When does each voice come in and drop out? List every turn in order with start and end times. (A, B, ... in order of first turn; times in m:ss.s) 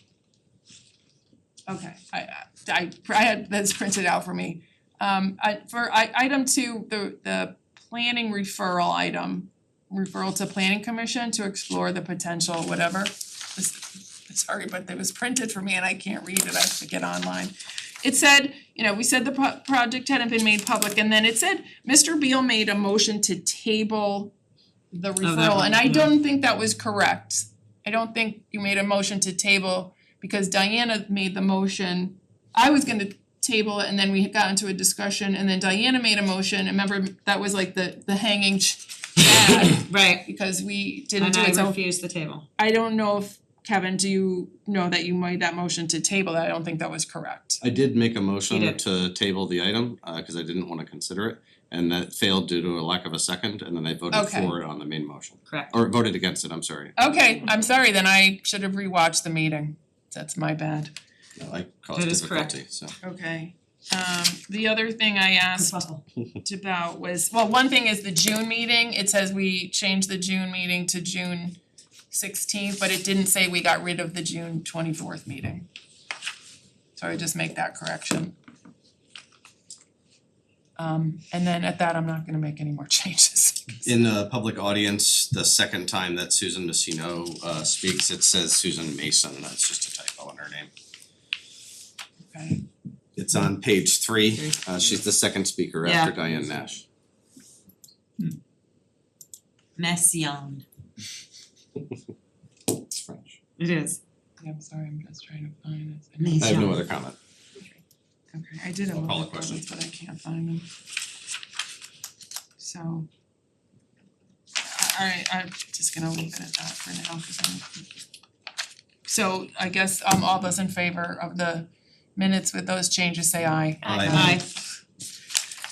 0:01.7-0:24.3 A
0:24.9-0:41.8 A
0:25.2-0:26.2 B
0:39.5-0:40.3 B
0:41.2-0:42.5 B
0:42.6-0:47.6 A
0:47.6-0:57.7 C
0:48.5-0:48.8 B
0:54.1-0:54.6 A
0:55.5-0:55.7 B
0:57.0-1:00.9 A
1:01.4-1:03.0 C
1:02.0-1:02.6 B
1:03.0-1:05.8 A
1:05.6-1:06.0 B
1:06.4-1:11.6 A
1:12.1-1:15.7 A
1:17.0-1:18.4 A
1:20.8-1:23.8 A
1:23.8-1:30.7 C
1:32.3-1:32.6 A
1:33.2-1:36.8 C
1:34.3-1:34.6 B
1:35.8-1:36.2 B
1:39.8-1:40.6 B
1:42.7-1:43.4 C
1:43.6-1:44.0 B
1:44.4-1:46.8 A
1:46.2-1:46.8 B
1:46.4-1:47.2 C
1:48.3-1:50.7 A
1:48.9-1:49.7 C
1:52.6-1:53.1 A
1:54.6-1:57.7 A
1:59.1-2:04.4 A
2:03.9-2:04.3 C
2:04.0-2:04.5 B